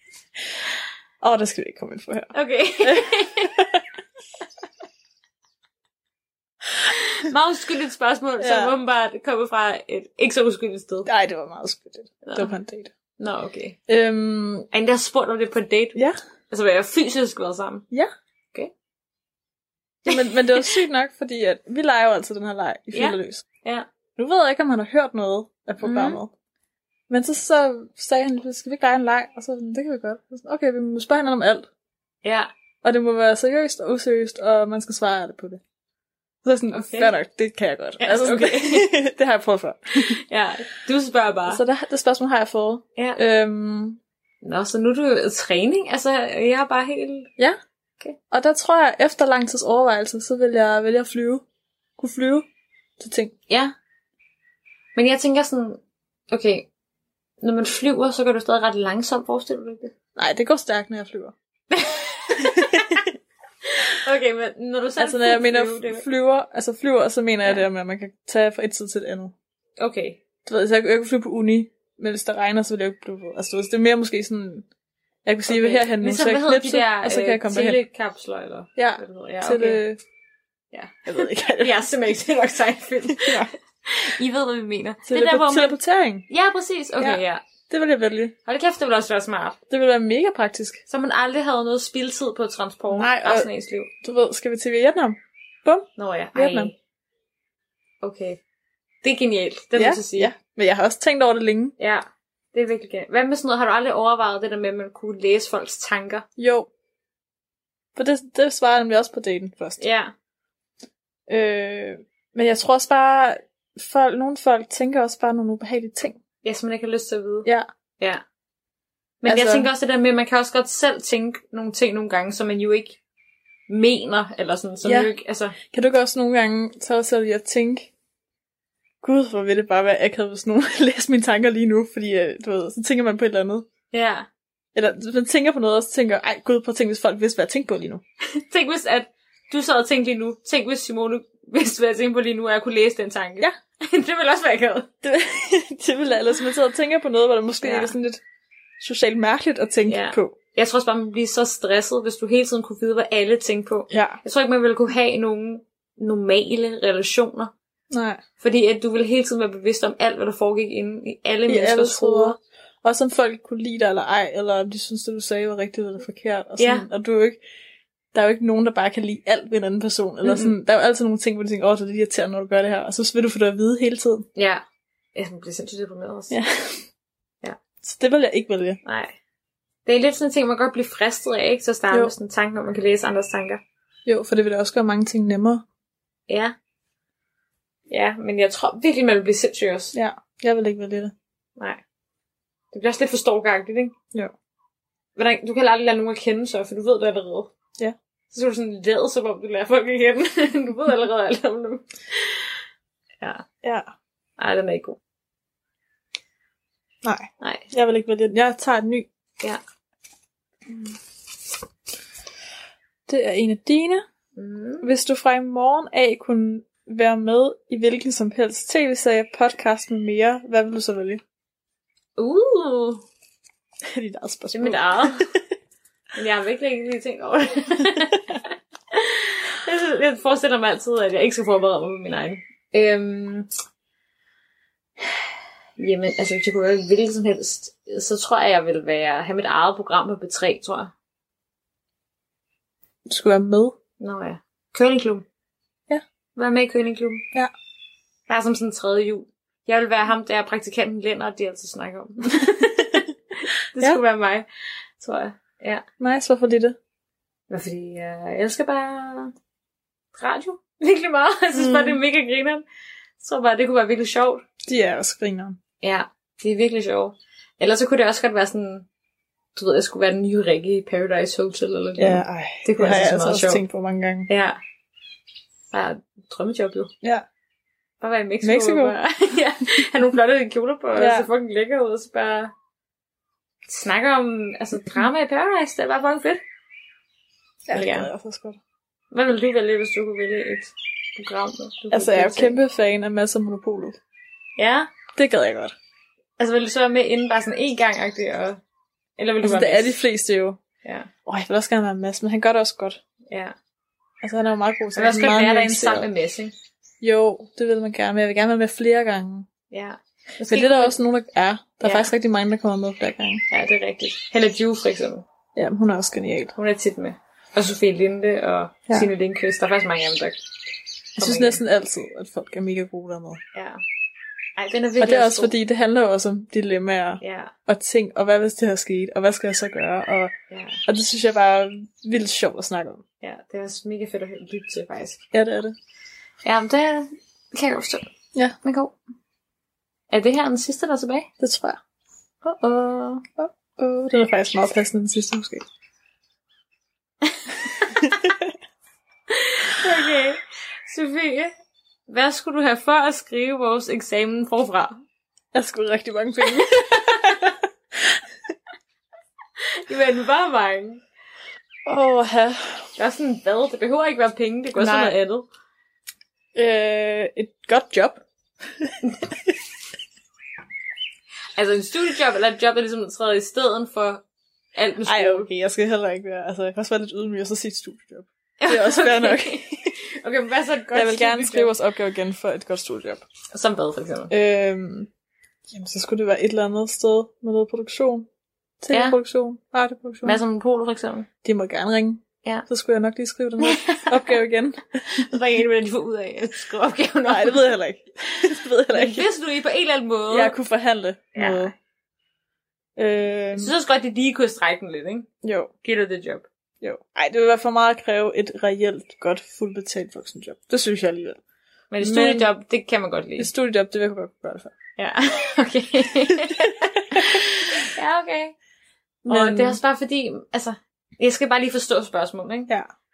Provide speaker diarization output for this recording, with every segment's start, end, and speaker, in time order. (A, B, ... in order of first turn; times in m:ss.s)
0:01.2-0:02.3 A
0:02.3-0:03.6 B
0:02.8-0:03.8 A
0:07.1-0:11.1 B
0:08.4-0:08.7 A
0:11.1-0:12.9 A
0:12.3-0:12.5 B
0:13.2-0:13.8 B
0:13.9-0:14.7 A
0:14.7-0:16.0 B
0:16.5-0:17.9 B
0:20.1-0:23.4 A
0:20.1-0:20.7 B
0:22.9-0:23.9 B
0:24.2-0:26.3 A
0:25.8-0:26.2 B
0:27.1-0:31.7 A
0:32.2-0:32.5 B
0:32.8-0:35.6 A
0:36.4-0:40.2 A
0:36.7-0:37.2 B
0:38.0-0:38.9 B
0:40.2-0:41.6 B
0:41.5-0:44.0 A
0:44.4-0:47.3 B
0:48.3-0:51.4 A
0:52.0-0:52.5 A
0:53.0-0:53.3 A
0:53.5-0:53.7 B
0:55.0-0:55.8 B
0:56.3-0:56.7 B
0:57.4-0:59.9 B
1:00.2-1:01.3 A
1:01.7-1:03.0 B
1:02.4-1:03.0 A
1:03.8-1:06.0 B
1:05.0-1:09.3 A
1:09.8-1:10.2 B
1:10.5-1:14.6 A
1:15.2-1:17.8 A
1:15.5-1:19.8 B
1:18.8-1:20.0 A
1:20.7-1:25.8 B
1:21.1-1:21.8 A
1:23.1-1:23.5 A
1:25.1-1:26.3 A
1:26.3-1:27.4 B
1:27.0-1:28.4 A
1:28.5-1:29.6 B
1:29.7-1:30.8 A
1:30.9-1:33.9 B
1:32.9-1:33.5 A
1:34.0-1:36.7 A
1:36.0-1:36.8 B
1:38.0-1:38.4 B
1:39.0-1:40.3 B
1:39.8-1:41.8 A
1:41.8-1:46.2 B
1:46.4-1:46.7 A
1:48.0-1:49.8 A
1:49.8-1:50.1 B
1:51.3-1:56.2 A
1:56.4-1:57.5 B
1:59.2-2:03.0 B
1:59.3-1:59.7 A
2:03.7-2:05.6 B
2:04.8-2:05.1 A
2:05.7-2:07.9 A
2:09.0-2:13.7 A
2:13.9-2:14.3 B
2:14.8-2:18.0 A
2:18.4-2:24.9 B
2:25.0-2:28.2 A
2:27.6-2:27.9 B
2:28.8-2:30.4 A
2:29.9-2:37.5 B
2:33.9-2:34.2 A
2:37.9-2:38.2 A
2:38.4-2:42.4 B
2:41.5-2:47.4 A
2:46.6-2:46.9 B
2:48.1-2:54.3 A
2:50.2-2:50.5 B
2:54.4-2:54.6 B
2:55.2-2:56.4 B
2:56.3-2:56.8 A
2:57.8-2:58.8 A
2:58.8-2:59.2 B
2:59.9-3:03.6 B
3:04.1-3:05.6 A
3:06.3-3:06.6 B
3:07.9-3:09.9 B
3:09.9-3:11.1 A
3:12.7-3:13.9 B
3:15.2-3:17.5 B
3:18.3-3:22.5 B
3:23.6-3:23.9 A
3:24.4-3:25.0 B
3:27.0-3:29.1 A
3:27.4-3:27.7 B
3:33.1-3:34.0 A
3:34.4-3:34.9 B
3:34.8-3:41.2 A
3:42.2-3:43.0 B
3:43.9-3:45.3 A
3:44.5-3:45.3 B
3:46.2-3:53.5 B
3:55.8-4:00.9 B
4:03.1-4:03.8 A
4:04.0-4:05.2 B
4:06.4-4:07.2 B
4:08.3-4:14.5 B
4:15.0-4:15.8 B
4:16.0-4:16.8 A
4:17.5-4:19.3 B
4:20.2-4:22.6 B
4:21.5-4:22.0 A
4:23.2-4:24.4 B
4:24.7-4:25.6 A
4:25.8-4:28.9 B
4:29.6-4:33.6 B
4:32.0-4:34.3 A
4:34.3-4:34.6 B
4:35.7-4:36.9 B
4:38.0-4:42.5 B
4:38.4-4:38.9 A
4:41.0-4:41.3 A
4:43.7-4:46.4 B
4:47.7-4:48.6 A
4:47.7-4:48.1 B
4:49.1-4:52.6 B
4:51.9-4:54.0 A
4:54.6-4:54.9 B
4:55.2-4:55.8 A
4:56.4-4:58.6 B
4:59.2-5:00.0 B
4:59.4-5:00.6 A
5:00.8-5:01.1 B
5:01.3-5:03.0 A
5:03.3-5:03.6 B
5:04.2-5:06.1 A
5:05.0-5:06.5 B
5:07.0-5:09.5 A
5:09.7-5:11.0 B
5:10.4-5:13.4 A
5:11.8-5:12.1 B
5:13.5-5:15.2 B
5:15.6-5:16.5 A
5:16.6-5:20.4 B
5:21.2-5:21.6 B
5:21.2-5:23.4 A
5:23.5-5:23.8 B
5:24.6-5:25.5 B
5:25.0-5:30.3 A
5:27.2-5:27.5 B
5:30.5-5:30.8 B
5:30.9-5:33.0 A
5:33.2-5:35.2 B
5:35.3-5:35.8 A
5:36.4-5:38.1 B
5:38.6-5:39.0 B
5:40.1-5:41.3 B
5:41.4-5:41.8 A
5:42.4-5:43.2 B
5:43.4-5:45.6 A
5:48.0-5:48.3 A
5:49.3-5:51.5 B
5:52.1-5:55.0 B
5:55.5-5:57.5 A
5:56.8-5:57.4 B
5:59.9-6:01.0 B
6:01.9-6:02.9 A
6:03.0-6:05.5 B
6:04.8-6:05.2 A
6:06.6-6:08.2 A
6:11.6-6:14.2 B
6:14.8-6:15.5 B
6:15.1-6:19.9 A
6:18.6-6:21.7 B
6:20.9-6:23.2 A
6:23.5-6:24.3 B
6:24.3-6:25.1 A
6:25.7-6:28.3 A
6:28.8-6:30.4 A
6:28.9-6:29.2 B
6:30.2-6:31.3 B
6:31.4-6:35.2 A
6:33.6-6:34.3 B
6:35.2-6:37.7 B
6:37.3-6:39.3 A
6:38.9-6:40.6 B
6:40.3-6:41.7 A
6:41.4-6:41.7 B
6:43.0-6:43.7 A
6:43.6-6:45.3 B
6:45.4-6:45.7 A
6:45.8-6:46.4 B
6:46.8-6:51.4 A
6:51.9-6:53.5 B
6:52.0-6:52.5 A
6:53.4-6:54.7 A
6:55.0-6:58.5 B
6:59.2-7:02.7 B
6:59.3-6:59.8 A